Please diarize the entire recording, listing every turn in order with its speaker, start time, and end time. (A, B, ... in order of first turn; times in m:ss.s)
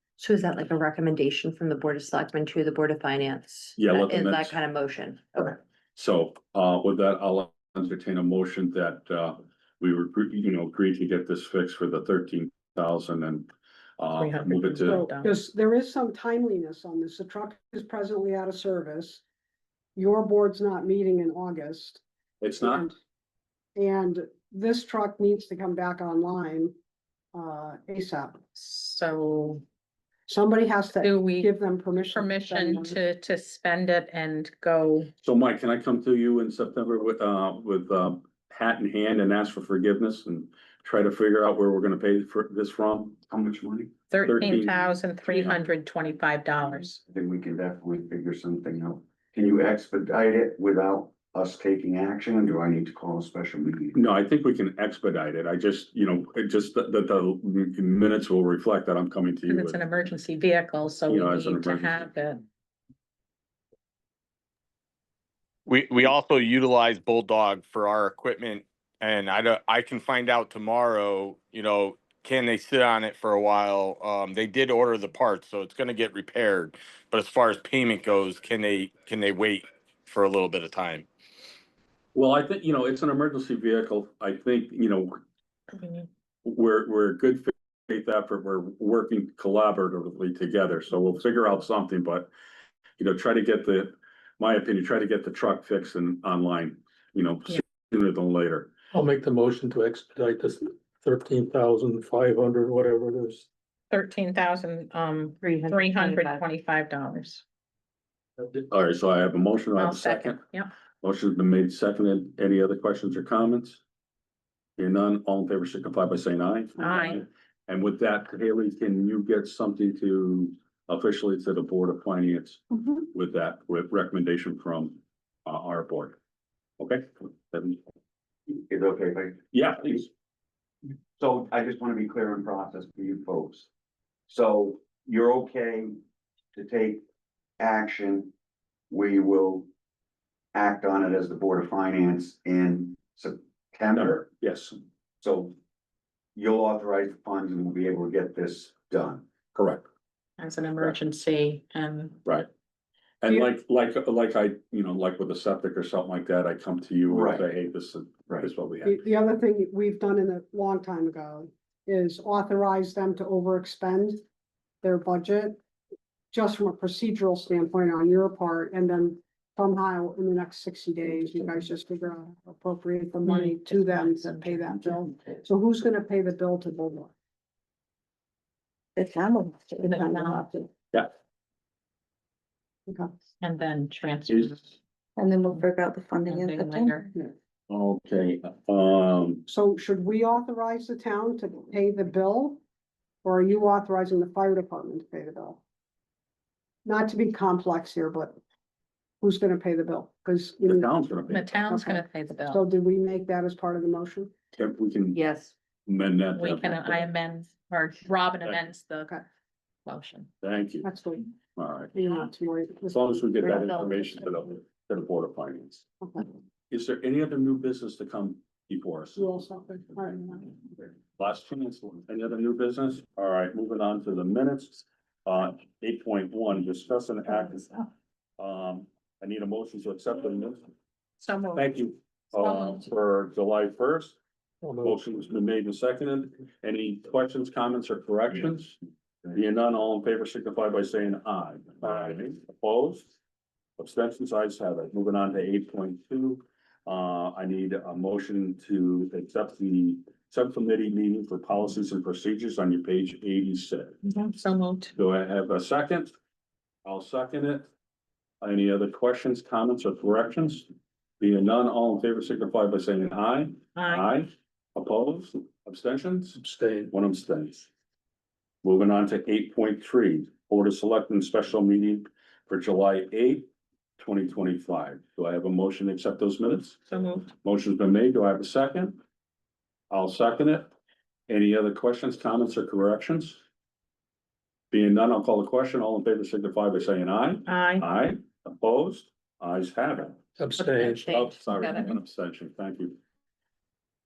0:00.2-0:05.6 A
0:03.8-0:04.6 B
0:06.0-0:15.0 B
0:14.2-0:15.4 C
0:14.8-0:19.2 D
0:20.0-0:22.0 D
0:22.4-0:22.9 B
0:22.6-0:23.0 D
0:23.8-0:26.7 D
0:27.3-0:28.4 D
0:28.6-0:29.6 C
0:30.3-0:33.0 D
0:31.0-0:31.5 C
0:32.0-0:35.1 C
0:35.2-0:43.2 B
0:43.3-0:43.9 E
0:44.1-0:47.0 C
0:44.2-0:45.6 B
0:47.1-0:54.0 E
0:53.9-0:59.9 B
0:59.5-1:02.5 C
1:01.1-1:02.1 B
1:05.7-1:21.1 F
1:22.2-1:25.2 B
1:25.8-1:26.1 C
1:26.4-1:32.3 B
1:33.0-1:38.7 B
1:38.9-1:43.5 G
1:43.9-1:47.4 C
1:45.4-1:46.4 A
1:48.4-1:50.4 B
1:49.8-1:50.7 C
1:51.0-1:53.8 B
1:54.8-2:02.6 B
1:56.8-1:57.2 C
2:03.1-2:06.2 B
2:06.8-2:07.8 B
2:08.5-2:10.0 E
2:09.5-2:10.1 B
2:11.2-2:13.7 E
2:14.3-2:16.0 E
2:16.5-2:17.0 E
2:17.6-2:18.3 E
2:18.9-2:19.7 E
2:20.5-2:24.3 E
2:24.0-2:24.8 B
2:25.2-2:25.5 E
2:26.4-2:29.2 E
2:29.5-2:29.8 B
2:30.4-2:32.2 C
2:33.2-2:39.0 B
2:37.1-2:37.4 E
2:38.8-2:44.2 D
2:44.8-2:45.6 D
2:46.3-2:57.1 D
2:53.4-2:53.9 C
2:59.0-3:00.4 H
2:59.8-3:00.5 C
3:02.9-3:03.1 D
3:03.4-3:04.8 C
3:05.2-3:07.0 H
3:06.2-3:07.1 C
3:07.7-3:09.4 B
3:09.5-3:12.6 D
3:13.2-3:15.6 D
3:16.8-3:18.4 D
3:19.2-3:20.9 D
3:20.7-3:21.4 B
3:21.3-3:22.6 C
3:21.7-3:24.3 D
3:24.6-3:25.2 B
3:25.1-3:25.5 A
3:25.9-3:27.0 B
3:26.4-3:29.2 C
3:29.9-3:30.3 C
3:30.4-3:30.9 B
3:30.8-3:31.3 D
3:31.6-3:31.9 B
3:31.9-3:33.5 D
3:32.9-3:35.8 B
3:33.4-3:34.2 A
3:36.7-3:39.2 B
3:39.2-3:40.6 D
3:41.2-3:47.7 B
3:48.4-3:50.6 B
3:51.2-3:51.8 C
3:51.6-3:54.2 B
3:52.4-3:52.9 C
3:54.6-3:55.1 G
3:54.8-3:58.8 B
3:59.3-4:03.1 B
4:03.8-4:14.0 B
4:14.0-4:15.0 C
4:15.0-4:16.1 B
4:16.8-4:17.7 B
4:18.4-4:20.7 B
4:21.2-4:26.4 B
4:23.8-4:24.1 C
4:26.4-4:26.9 G
4:26.9-4:27.7 B
4:28.6-4:39.0 B
4:36.9-4:37.3 C
4:39.9-4:40.7 B
4:41.3-4:43.4 B
4:44.7-4:50.2 B
4:47.5-4:47.9 C
4:50.4-4:51.4 G
4:50.6-4:51.9 A
4:51.0-4:53.0 B